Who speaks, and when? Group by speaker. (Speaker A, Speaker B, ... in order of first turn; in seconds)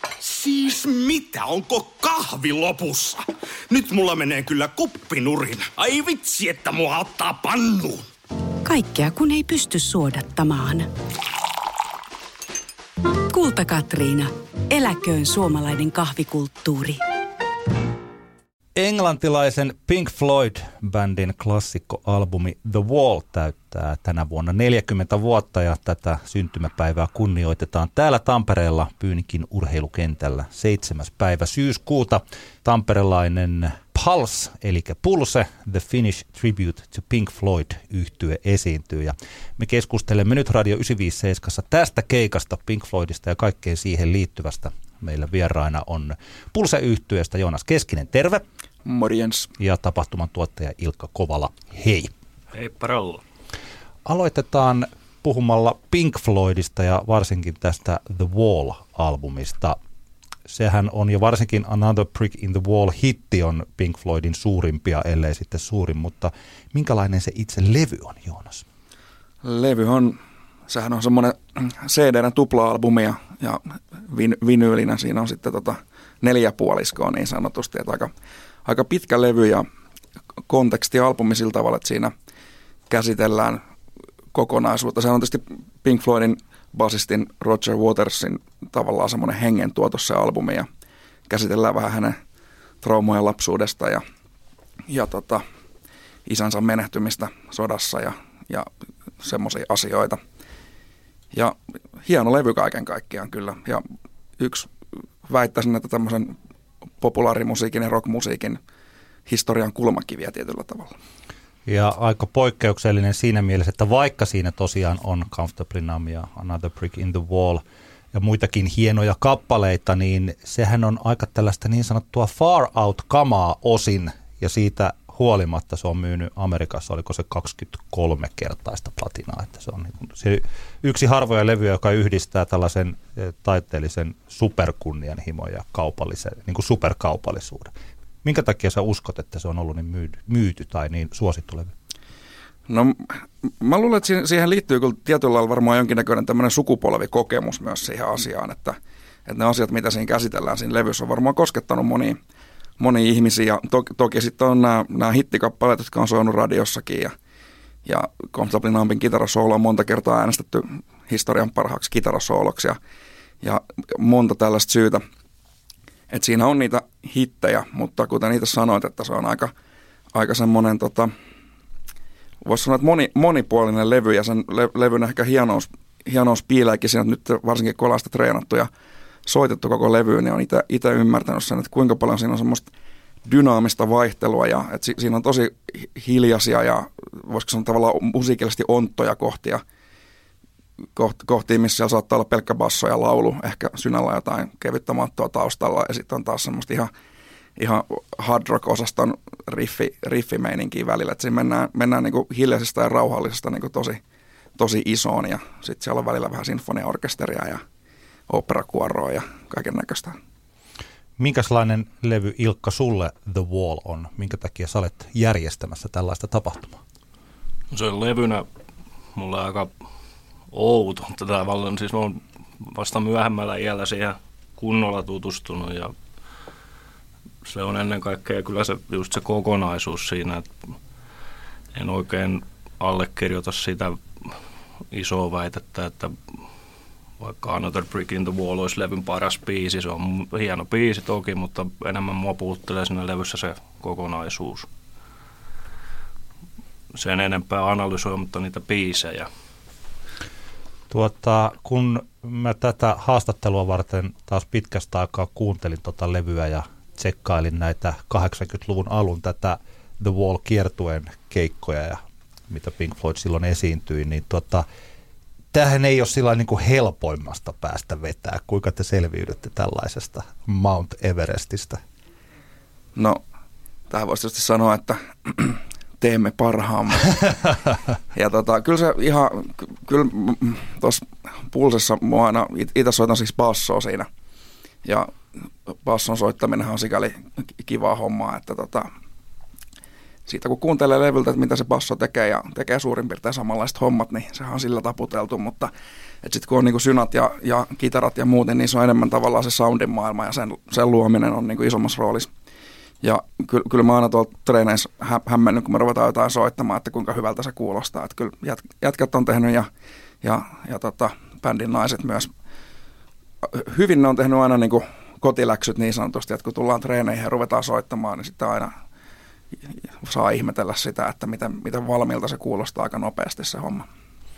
Speaker A: 0.2-8.1
Speaker B: 8.6-10.9, 13.3-17.0
Speaker C: 18.8-48.4, 49.6-52.1, 54.0-59.8, 60.5-68.6, 111.6-137.7, 138.2-141.7, 211.2-216.8, 250.9-264.6, 265.5-271.8
Speaker D: 48.8-49.5, 69.4-78.1, 78.6-79.7, 80.5-82.1, 82.9-83.6, 84.3-90.7, 91.3-92.2, 92.8-94.0, 94.9-95.4, 96.2-98.7, 99.2-100.2, 101.3-103.8, 104.4-104.7, 105.2-106.3, 107.0-108.6, 109.3-110.9, 142.7-152.2, 152.8-157.1, 157.8-162.8, 163.4-165.0, 166.1-169.5, 170.1-171.1, 172.4-178.7, 179.2-182.7, 183.2-189.6, 190.9-196.9, 197.6-204.0, 204.6-207.6, 208.3-210.2, 272.9-273.2, 273.9-277.6, 278.1-284.1, 284.8-285.1, 285.7-288.9, 290.3-295.7, 296.2-302.3, 303.0-309.7, 310.2-312.3, 313.4-318.7, 320.0-323.9
Speaker E: 52.5-53.2, 217.7-218.4, 219.1-219.7, 220.5-225.9, 227.4-230.5, 231.7-234.3, 234.9-236.2, 237.2-244.7, 246.9-249.3